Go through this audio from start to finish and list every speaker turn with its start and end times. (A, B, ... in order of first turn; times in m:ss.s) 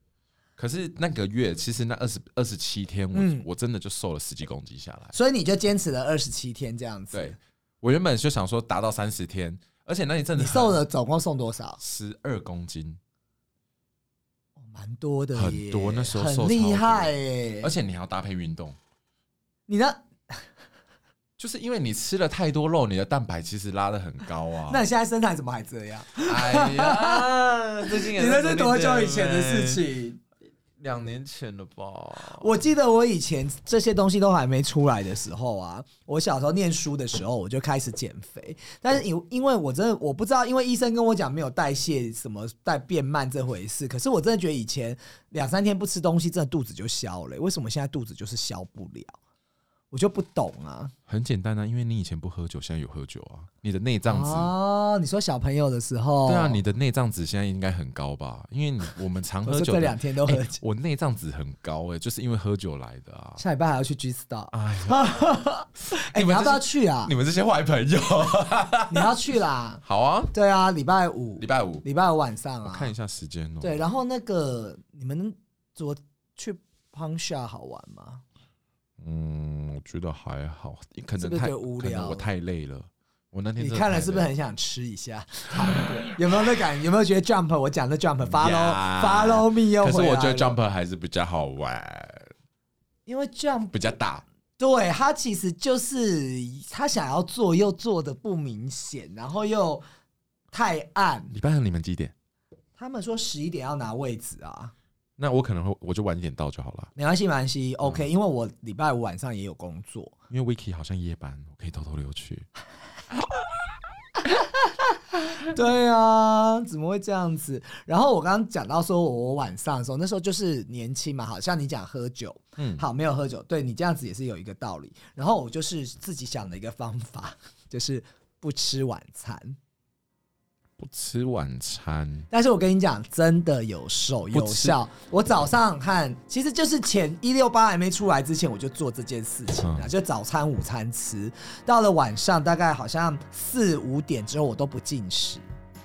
0:00.6-0:05.2 A
0:03.1-0:03.4 B
0:05.1-0:07.4 B
0:07.1-0:10.8 A
0:10.4-0:11.8 B
0:11.8-0:13.0 A
0:14.6-0:17.7 B
0:15.4-0:18.8 A
0:19.7-0:20.4 B
0:21.4-0:24.8 A
0:24.7-0:27.3 B
0:26.2-0:29.8 A
0:27.9-0:30.2 B
0:30.8-0:32.6 A
0:32.3-0:49.2 B
0:49.9-0:50.9 B
0:51.1-0:54.5 A
0:54.1-0:56.6 B
0:56.3-1:03.4 A
0:59.5-1:00.6 B
1:03.4-1:07.1 B
1:04.5-1:05.2 A
1:05.8-1:09.1 A
1:08.9-1:09.8 B
1:09.8-1:10.3 A
1:10.3-1:12.9 B
1:11.4-1:11.8 A
1:12.6-1:13.8 A
1:13.6-1:18.2 B
1:19.0-1:24.3 A
1:21.2-1:22.2 B
1:23.6-1:30.6 B
1:28.3-1:32.3 A
1:33.1-1:33.8 B
1:33.7-1:34.2 A
1:34.6-1:39.8 B
1:40.5-1:41.3 B
1:41.3-1:42.1 A
1:42.8-1:44.7 B
1:45.2-1:46.9 A
1:47.0-1:50.1 B
1:50.3-1:52.4 A
1:55.5-2:09.6 B
2:02.6-2:02.8 A
2:10.8-2:12.3 A
2:12.3-2:25.5 B
2:14.3-2:14.8 A
2:19.6-2:19.9 A